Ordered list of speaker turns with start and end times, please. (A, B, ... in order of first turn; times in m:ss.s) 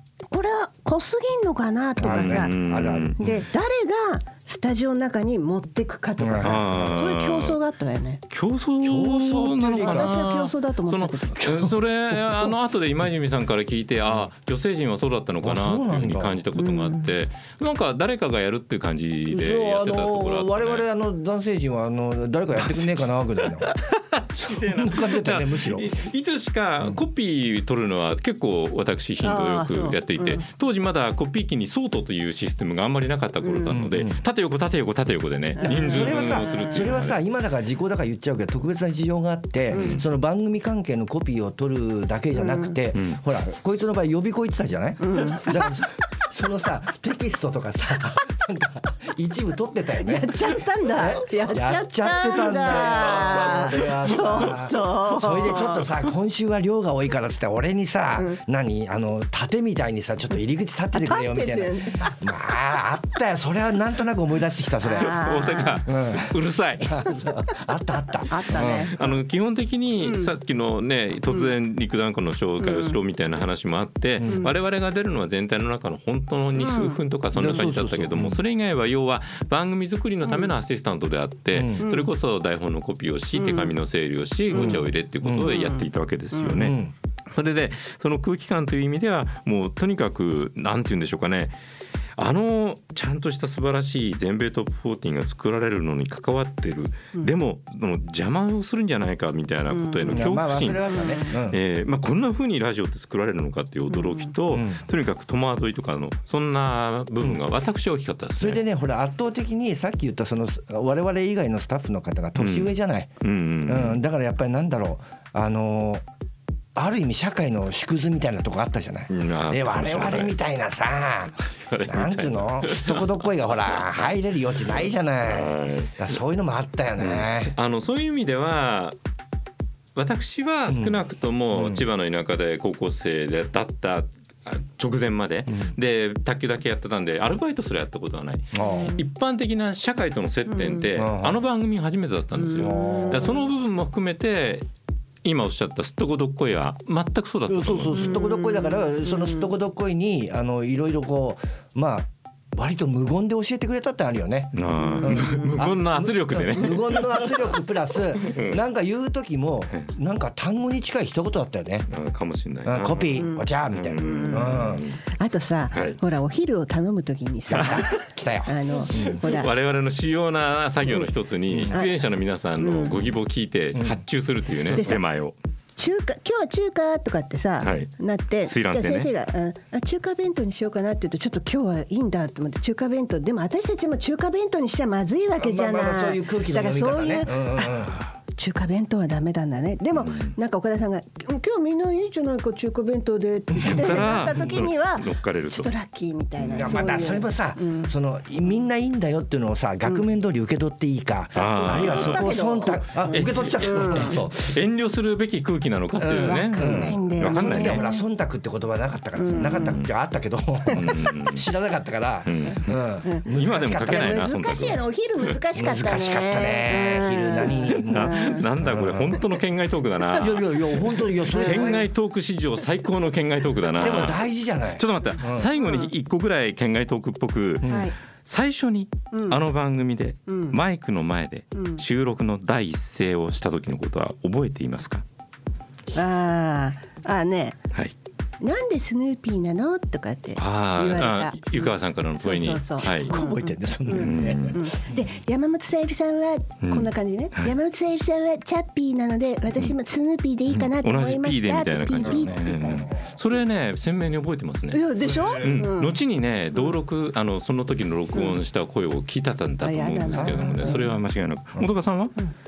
0:00.3-0:02.6 A
0:02.0-0:03.4 B
0:02.0-0:03.2 C
0:03.2-0:08.2 A
0:06.2-0:06.9 B
0:06.4-0:07.6 C
0:08.3-0:20.9 C
0:08.8-0:10.2 B
0:09.7-0:11.5 A
0:11.3-0:12.5 B
0:15.4-0:16.4 B
0:16.6-0:17.0 A
0:19.3-0:23.7 B
0:22.6-0:37.2 C
0:24.4-0:25.9 B
0:29.2-0:30.4 A
0:33.4-0:33.8 A
0:33.7-0:34.2 B
0:35.6-0:36.9 A
0:35.6-1:05.2 B
0:39.7-0:40.1 C
0:42.4-0:42.8 A
0:45.0-0:45.8 A
0:50.0-0:55.9 A
0:53.0-0:53.9 C
1:00.9-1:02.2 A
1:04.8-1:05.8 A
1:04.9-1:07.1 C
1:05.8-1:08.9 B
1:08.3-1:09.2 A
1:08.6-1:26.8 C
1:10.0-1:10.3 A
1:12.6-1:13.0 A
1:14.2-1:14.5 B
1:14.2-1:14.5 A
1:16.6-1:17.0 A
1:17.3-1:18.4 B
1:20.2-1:20.5 A
1:21.5-1:21.9 B
1:21.8-1:22.1 A
1:23.3-1:23.7 A
1:24.5-1:24.8 A
1:24.6-1:25.5 B
1:25.4-1:26.7 A
1:26.5-1:26.9 B
1:27.3-1:31.6 C
1:32.2-1:48.6 C
1:39.7-1:41.2 A
1:40.1-1:41.6 B
1:43.9-1:44.3 A
1:44.5-1:44.8 B
1:48.4-1:56.0 B
1:52.4-1:54.0 C
1:56.8-2:07.6 B
1:59.1-2:00.4 C
2:01.6-2:06.1 C
2:07.0-2:09.0 C
2:10.0-2:24.7 C
2:10.7-2:11.0 B
2:11.5-2:11.8 B
2:18.5-2:19.0 B
2:20.5-2:20.8 A
2:20.9-2:21.4 B
2:22.4-2:23.4 A
2:22.6-2:23.4 B
2:25.2-2:28.2 C
2:27.5-2:41.9 B
2:27.9-2:29.5 A
2:34.5-2:37.4 C
2:34.8-2:35.6 A
2:38.2-2:38.6 C
2:41.9-2:45.0 C
2:42.6-2:44.8 B
2:43.2-2:49.5 A
2:45.7-2:46.0 C
2:47.5-2:49.2 B
2:48.9-2:55.4 C
2:51.5-2:51.8 B
2:51.7-2:53.1 A
2:53.8-2:54.0 B
2:54.7-2:55.0 A
2:55.8-3:17.9 A
2:57.6-2:59.1 C
3:05.4-3:08.0 B
3:10.0-3:10.4 C
3:13.5-3:14.7 B
3:13.6-3:15.7 C
3:16.4-3:24.6 B
3:16.5-3:16.8 C
3:21.4-3:22.3 C
3:21.5-3:24.2 A
3:23.1-3:27.9 C
3:26.0-3:34.3 B
3:26.1-3:28.0 A
3:29.2-3:29.8 A
3:29.4-3:29.9 C
3:30.7-3:31.4 C
3:32.3-3:32.8 C
3:33.1-3:38.5 A
3:33.3-3:35.3 C
3:35.5-3:39.2 B
3:37.9-3:44.2 C
3:40.2-3:41.9 B
3:41.3-3:41.8 A
3:43.8-3:45.5 B
3:44.8-3:47.7 C
3:45.6-3:45.9 A
3:47.6-3:47.9 B
3:47.6-3:48.0 A
3:48.2-3:55.0 C
3:49.1-3:49.4 A
3:50.3-3:50.6 A
3:51.6-3:51.8 A
3:55.9-3:57.6 A
3:58.4-4:12.9 A
4:00.4-4:03.1 C
4:03.0-4:04.8 B
4:03.9-4:04.6 C
4:06.6-4:07.5 C
4:10.8-4:22.2 C
4:11.9-4:13.0 B
4:14.7-4:16.0 A
4:15.1-4:15.6 B
4:19.6-4:20.9 A
4:20.1-4:20.9 B